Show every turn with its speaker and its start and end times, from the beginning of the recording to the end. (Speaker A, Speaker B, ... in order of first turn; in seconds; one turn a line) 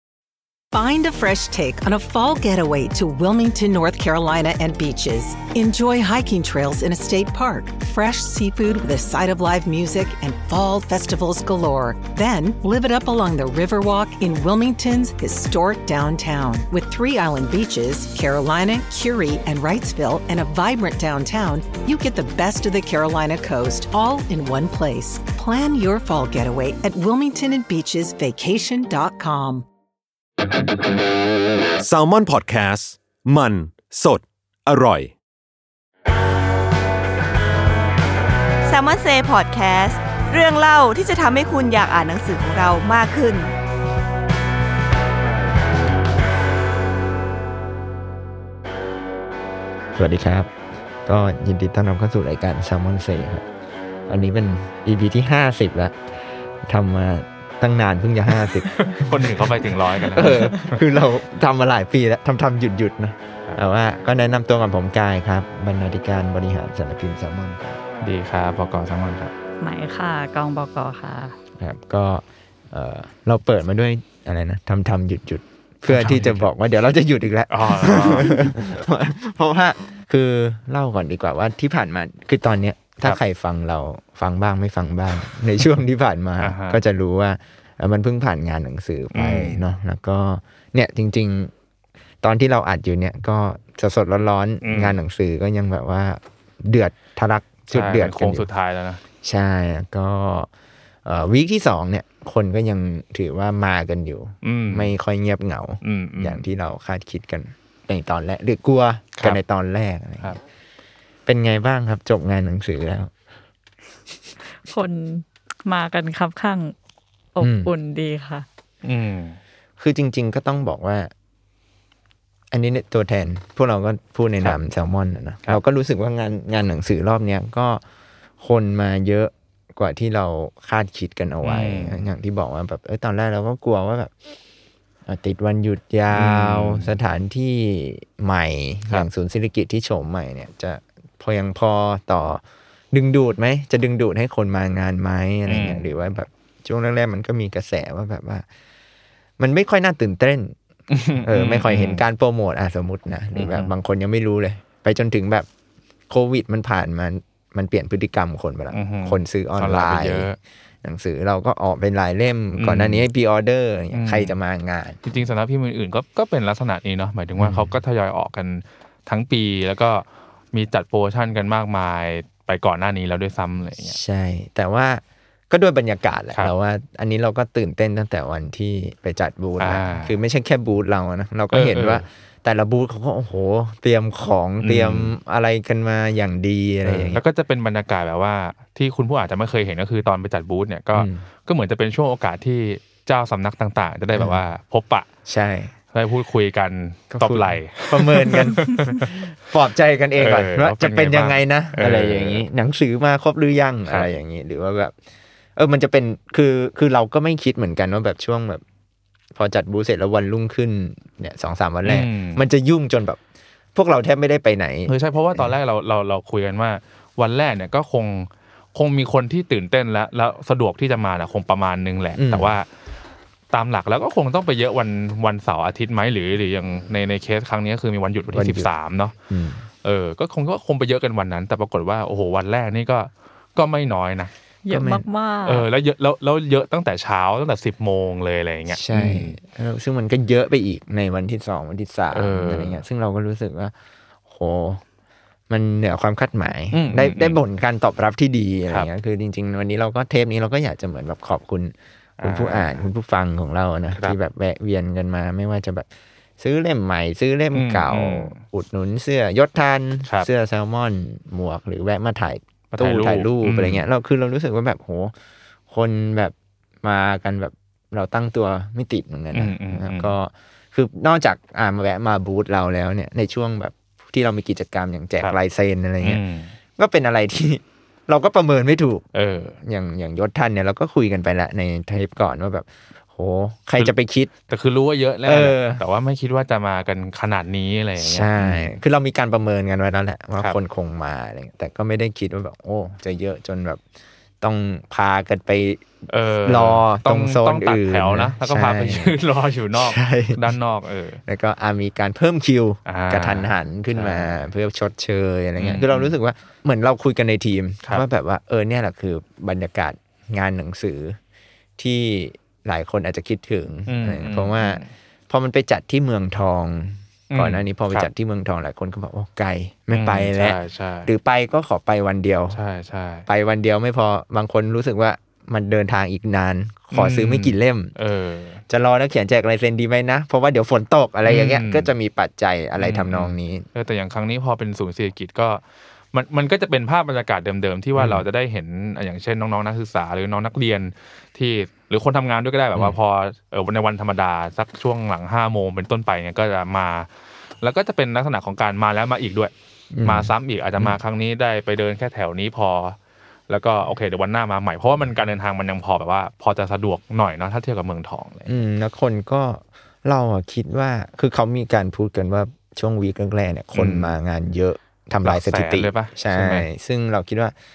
Speaker A: 0.7-29.7
Speaker B: 31.8-35.1
Speaker C: 38.6-43.5
Speaker D: 50.0-50.5
Speaker D: 51.0-53.5
Speaker D: 54.1-56.0
Speaker D: 56.6-67.8
Speaker E: 58.7-60.8
Speaker E: 68.0-69.3
Speaker F: 69.6-71.3
Speaker D: 71.6-91.5
Speaker E: 75.9-76.5
Speaker E: 77.5-78.5
Speaker E: 86.4-86.8
Speaker E: 89.1-89.7
Speaker D: 92.2-98.5
Speaker E: 94.6-95.0
Speaker E: 97.7-99.0
Speaker D: 99.2-100.5
Speaker D: 101.0-110.4
Speaker E: 104.4-104.9
Speaker E: 105.8-106.5
Speaker D: 111.2-113.1
Speaker F: 114.6-116.7
Speaker F: 117.3-118.4
Speaker D: 117.4-117.7
Speaker E: 118.8-119.4
Speaker D: 119.8-121.1
Speaker D: 122.5-127.8
Speaker D: 128.4-134.1
Speaker E: 131.4-132.0
Speaker D: 135.1-148.4
Speaker E: 136.1-136.9
Speaker E: 145.5-145.9
Speaker D: 149.4-150.6
Speaker E: 150.9-152.0
Speaker D: 151.2-155.5
Speaker E: 153.3-153.7
Speaker D: 156.1-160.3
Speaker E: 158.7-160.4
Speaker D: 160.8-165.0
Speaker E: 162.6-163.1
Speaker E: 163.9-164.3
Speaker E: 165.0-174.0
Speaker D: 167.4-167.7
Speaker D: 173.8-187.2
Speaker E: 179.6-180.1
Speaker E: 181.5-182.0
Speaker E: 184.6-185.1
Speaker E: 186.8-195.1
Speaker D: 190.9-191.2
Speaker D: 194.1-194.4
Speaker D: 195.2-195.7
Speaker E: 195.9-199.2
Speaker D: 197.1-204.9
Speaker E: 200.2-202.4
Speaker D: 205.6-208.6
Speaker D: 209.3-213.2
Speaker E: 211.8-212.4
Speaker D: 213.7-215.5
Speaker E: 214.9-222.7
Speaker D: 222.2-222.5
Speaker E: 223.5-229.1
Speaker D: 228.3-228.7
Speaker D: 229.3-229.6
Speaker E: 229.8-234.3
Speaker F: 234.6-235.7
Speaker D: 234.7-235.0
Speaker E: 235.4-239.4
Speaker D: 238.7-243.7
Speaker E: 242.1-242.8
Speaker D: 244.3-244.8
Speaker D: 245.5-255.9
Speaker E: 246.7-247.4
Speaker E: 252.2-252.8
Speaker D: 256.4-265.1
Speaker E: 257.5-258.4
Speaker E: 262.7-263.8
Speaker D: 265.7-276.2
Speaker E: 269.3-270.1
Speaker E: 276.0-276.5
Speaker D: 276.8-279.1
Speaker E: 279.1-279.6
Speaker D: 279.6-284.3
Speaker E: 284.5-288.7
Speaker D: 285.2-285.8
Speaker D: 288.0-293.8
Speaker D: 294.4-295.9
Speaker E: 296.1-301.2
Speaker D: 296.4-299.2
Speaker D: 299.7-300.5
Speaker D: 301.2-311.2
Speaker E: 302.9-304.4
Speaker E: 305.6-306.1
Speaker D: 311.8-322.6
Speaker E: 313.9-314.9
Speaker E: 317.3-318.1
Speaker E: 319.9-321.1
Speaker E: 322.5-323.3
Speaker D: 323.3-327.9
Speaker E: 326.9-328.6
Speaker D: 328.7-333.6
Speaker E: 331.2-331.9
Speaker E: 332.8-335.6
Speaker E: 336.1-347.1
Speaker D: 337.9-338.2
Speaker E: 347.6-349.5
Speaker D: 349.9-351.0
Speaker E: 350.0-353.0
Speaker E: 353.5-358.5
Speaker D: 358.5-367.5
Speaker E: 363.7-364.1
Speaker E: 365.2-366.7